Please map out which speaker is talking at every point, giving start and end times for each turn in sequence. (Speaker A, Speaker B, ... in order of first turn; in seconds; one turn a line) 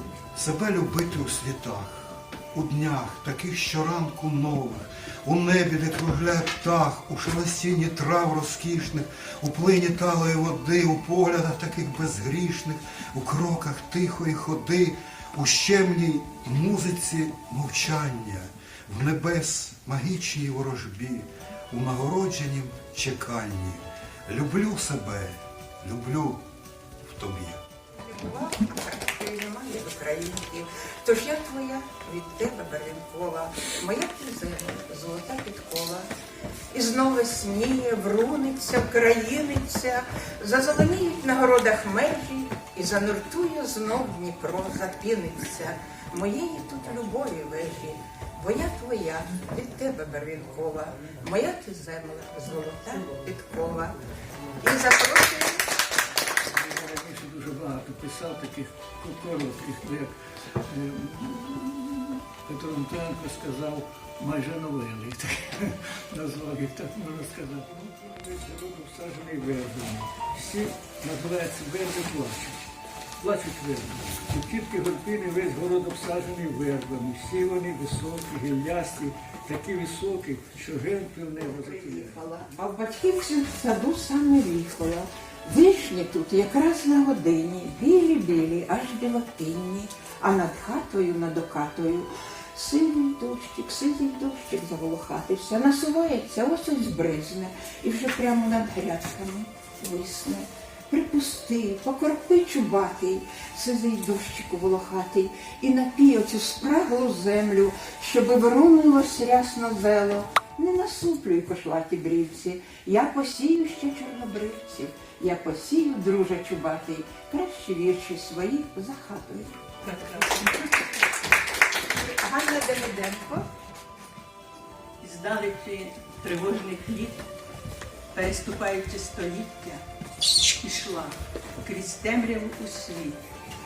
Speaker A: 0.3-26.4
Speaker A: 27.0-27.6
Speaker B: 27.9-36.1
Speaker B: 36.7-54.0
Speaker B: 54.6-55.6
Speaker C: 56.5-60.1
Speaker C: 60.7-72.6
Speaker C: 73.2-82.3
Speaker B: 81.4-119.7
Speaker D: 119.8-120.7
Speaker B: 122.0-123.5
Speaker D: 122.8-123.1
Speaker D: 125.0-127.3
Speaker D: 128.1-129.8
Speaker D: 130.6-133.2